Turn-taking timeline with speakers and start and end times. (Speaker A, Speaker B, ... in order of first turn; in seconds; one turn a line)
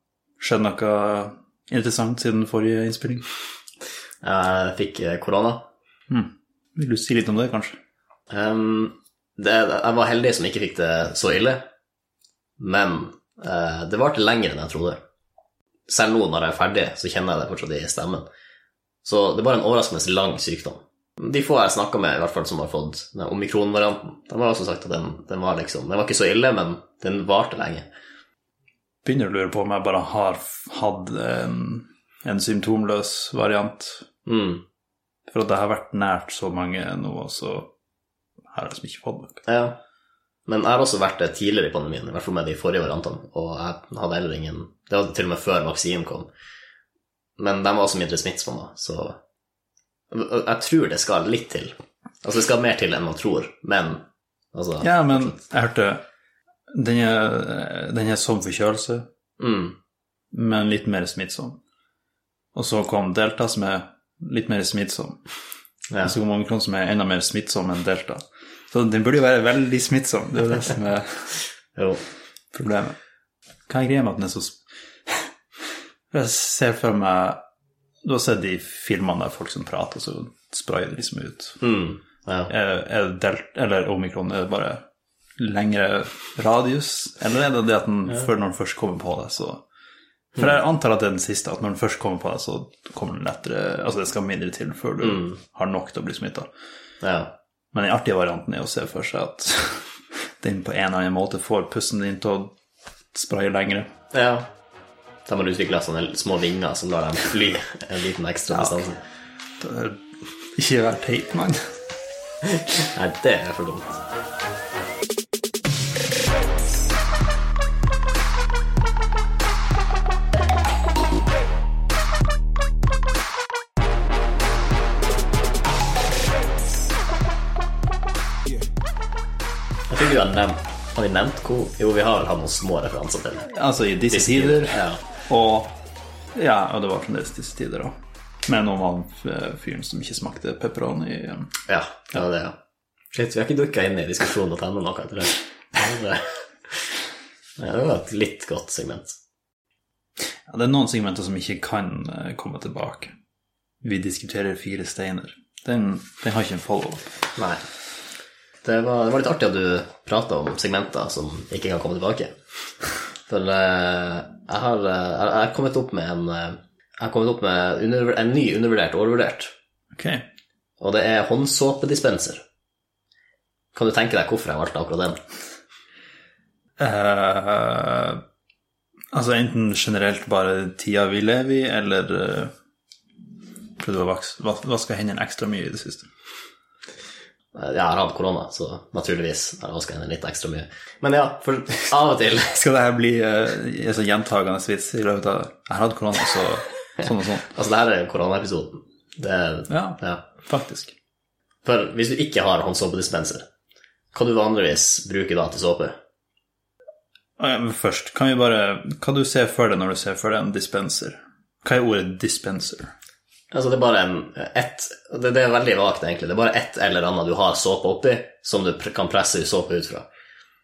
Speaker A: 0.4-3.2
Speaker B: 4.2-5.7
Speaker A: 6.1-7.8
Speaker B: 8.3-11.6
Speaker B: 12.6-15.0
Speaker B: 15.9-18.3
Speaker B: 19.0-27.9
Speaker A: 29.0-34.1
Speaker B: 34.3-34.6
Speaker A: 35.3-37.7
Speaker A: 38.5-39.4
Speaker B: 39.5-39.8
Speaker B: 40.5-46.3
Speaker B: 47.4-49.2
Speaker B: 50.1-55.4
Speaker A: 54.8-56.0
Speaker A: 56.7-59.1
Speaker B: 59.4-59.8
Speaker A: 60.3-61.6
Speaker A: 62.5-65.2
Speaker B: 65.9-66.2
Speaker A: 66.0-71.4
Speaker B: 71.8-72.0
Speaker A: 72.5-73.0
Speaker A: 73.7-75.3
Speaker A: 76.1-77.4
Speaker A: 78.0-81.6
Speaker B: 81.6-82.5
Speaker A: 82.5-84.8
Speaker A: 85.4-89.6
Speaker A: 90.4-96.5
Speaker B: 95.0-95.3
Speaker B: 97.0-97.3
Speaker A: 97.7-99.9
Speaker A: 100.4-102.5
Speaker A: 103.1-103.9
Speaker B: 104.1-104.5
Speaker B: 105.3-109.0
Speaker A: 108.5-108.8
Speaker A: 109.6-110.0
Speaker A: 110.6-111.6
Speaker B: 112.5-114.0
Speaker B: 129.9-133.5
Speaker A: 133.5-135.7
Speaker B: 134.1-135.0
Speaker A: 136.4-137.9
Speaker A: 138.5-141.5
Speaker B: 141.7-142.6
Speaker B: 143.1-146.9
Speaker B: 147.6-149.2
Speaker A: 150.5-153.1
Speaker A: 153.8-157.1
Speaker B: 157.4-157.6
Speaker B: 158.6-169.5
Speaker A: 169.9-170.2
Speaker B: 170.8-172.4
Speaker B: 173.7-175.2
Speaker A: 176.8-178.2
Speaker A: 179.1-182.5
Speaker A: 183.8-186.1
Speaker B: 187.5-192.6
Speaker A: 192.6-197.5
Speaker B: 197.4-200.2
Speaker A: 199.7-200.9
Speaker B: 201.7-203.5
Speaker B: 204.1-206.0
Speaker A: 207.4-212.9
Speaker B: 213.5-220.1